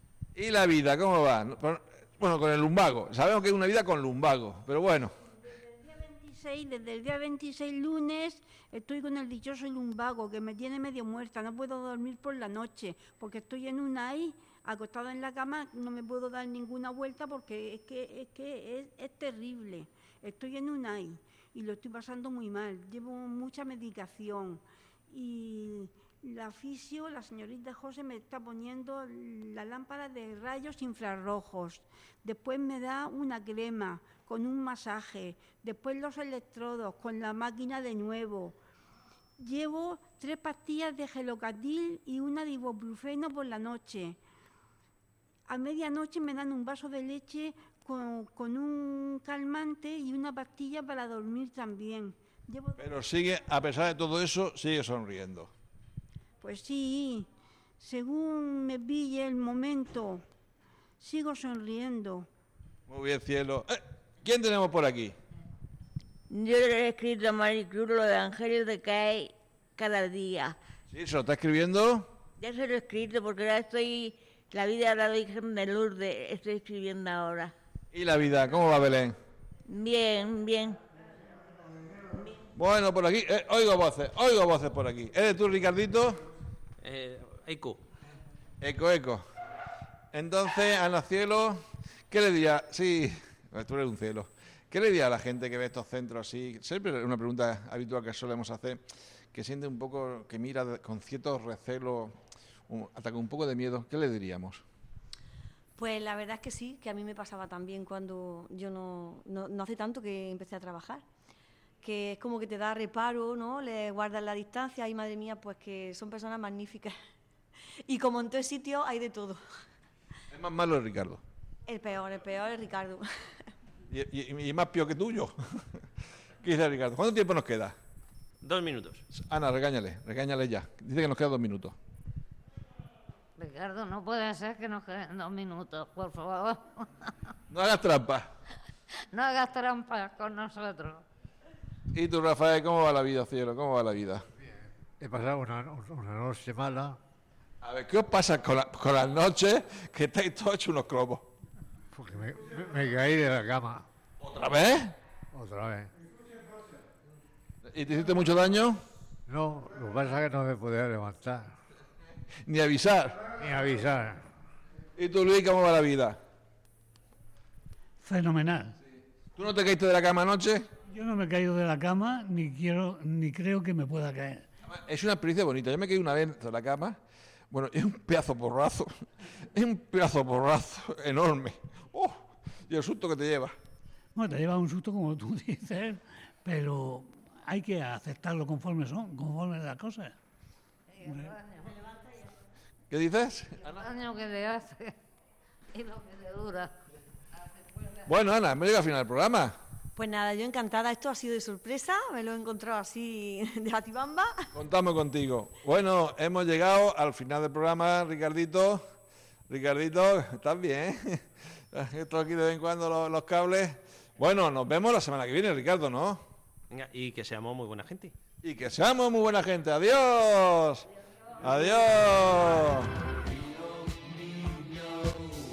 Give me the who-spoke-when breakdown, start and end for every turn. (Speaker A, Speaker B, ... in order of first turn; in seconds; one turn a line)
Speaker A: 0.3-5.1
Speaker B: 5.8-38.6
Speaker B: 39.4-44.2
Speaker B: 45.5-52.8
Speaker A: 52.8-55.5
Speaker B: 56.4-57.3
Speaker B: 57.8-60.2
Speaker B: 61.0-62.3
Speaker A: 62.9-65.2
Speaker C: 66.3-70.6
Speaker A: 70.9-72.1
Speaker C: 72.4-77.5
Speaker A: 77.9-79.1
Speaker C: 79.7-80.8
Speaker A: 82.5-86.2
Speaker D: 86.8-87.8
Speaker A: 88.6-89.2
Speaker A: 90.1-98.8
Speaker A: 99.3-102.1
Speaker A: 102.7-104.6
Speaker E: 105.8-111.0
Speaker E: 111.8-116.9
Speaker E: 117.9-119.4
Speaker A: 120.3-121.2
Speaker E: 121.7-123.0
Speaker A: 123.9-125.3
Speaker A: 126.4-127.7
Speaker D: 128.4-129.0
Speaker A: 129.1-131.7
Speaker F: 133.4-136.7
Speaker A: 137.5-138.3
Speaker F: 139.1-141.0
Speaker A: 141.9-144.2
Speaker G: 144.4-147.0
Speaker A: 147.6-151.3
Speaker G: 151.9-153.9
Speaker A: 154.2-154.9
Speaker G: 155.3-155.9
Speaker A: 157.7-158.8
Speaker G: 159.3-161.5
Speaker A: 162.4-163.2
Speaker G: 163.4-164.2
Speaker A: 165.0-166.2
Speaker H: 168.0-168.8
Speaker A: 169.3-170.7
Speaker H: 170.9-174.4
Speaker A: 174.7-177.0
Speaker A: 177.5-178.9
Speaker A: 179.5-183.5
Speaker H: 184.2-190.1
Speaker H: 191.0-191.4
Speaker A: 192.9-193.8
Speaker F: 193.8-194.9
Speaker F: 195.7-196.7
Speaker A: 198.1-199.5
Speaker E: 199.9-204.3
Speaker A: 204.5-208.8
Speaker A: 209.5-211.2
Speaker A: 211.7-216.2
Speaker D: 216.7-218.1
Speaker A: 218.4-220.9
Speaker A: 221.4-222.9